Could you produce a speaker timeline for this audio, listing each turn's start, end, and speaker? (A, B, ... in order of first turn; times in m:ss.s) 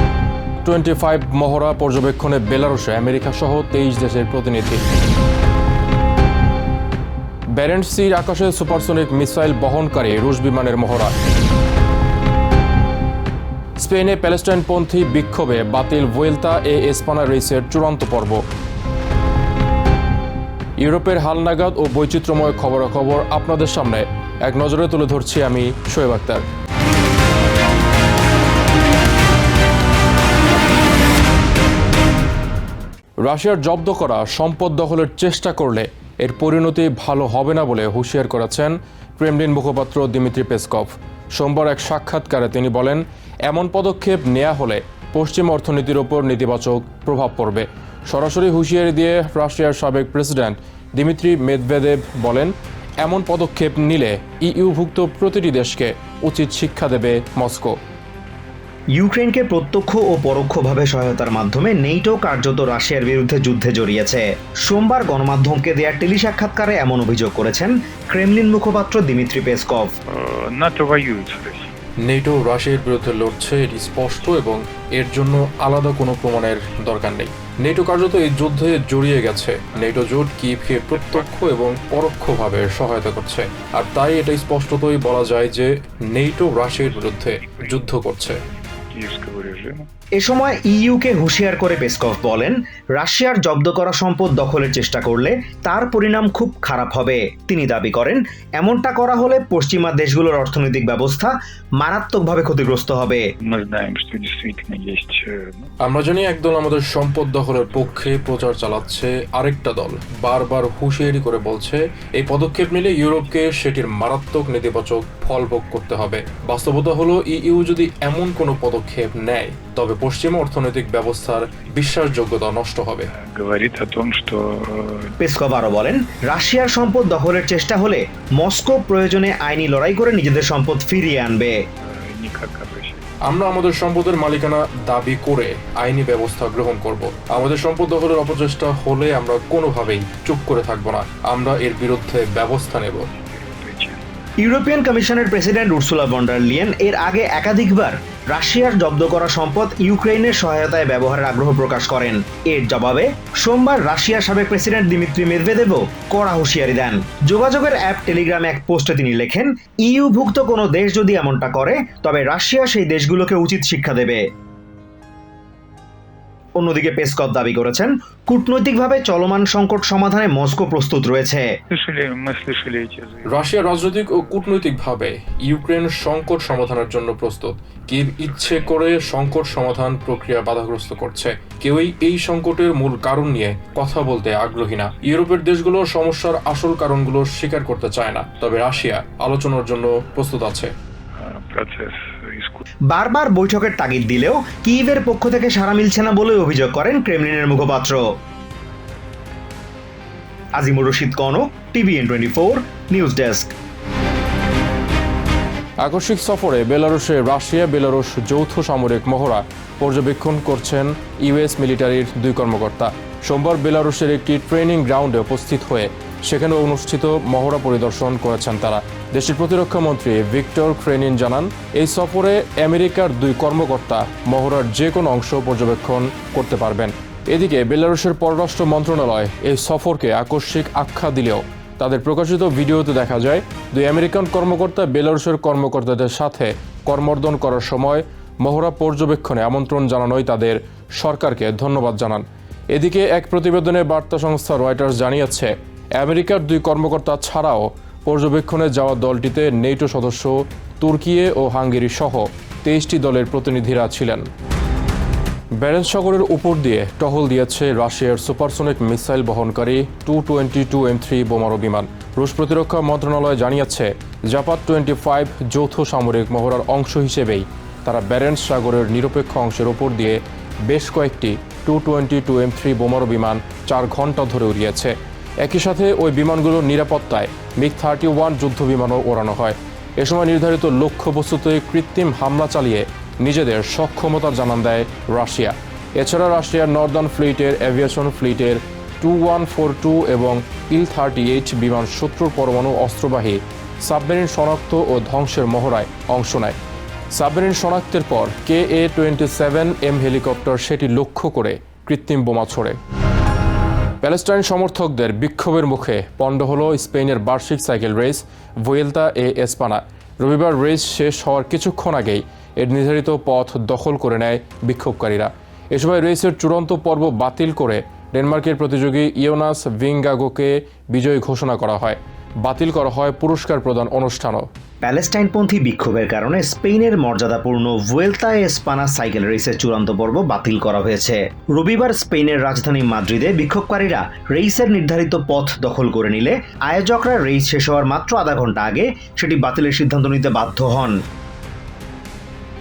0:00.6-0:04.8 A
0:07.5-0:11.1 A
0:13.8-0:18.4 A
0:20.8-0:26.4 A
0:33.2-0:57.8 A
0:58.9-1:09.9 B
1:10.1-1:11.7 C
1:12.0-1:28.4 A
1:21.0-1:21.4 C
1:27.0-1:27.9 C
1:28.9-1:29.9 C
1:30.2-1:43.2 B
1:43.5-1:45.7 C
1:45.8-2:03.1 A
2:03.2-2:05.1 C
2:05.2-2:11.6 B
2:11.9-2:13.0 C
2:13.2-2:23.1 A
2:23.1-2:24.0 C
2:24.4-2:44.2 B
2:46.6-2:51.5 B
2:51.7-2:53.3 C
2:53.3-3:10.7 A
3:11.2-3:12.6 C
3:12.9-3:18.0 B
3:20.6-3:23.5 B
3:25.8-4:14.3 A
4:15.6-4:56.6 A
4:57.1-5:02.8 A
5:04.0-5:24.5 A
5:24.8-5:41.0 B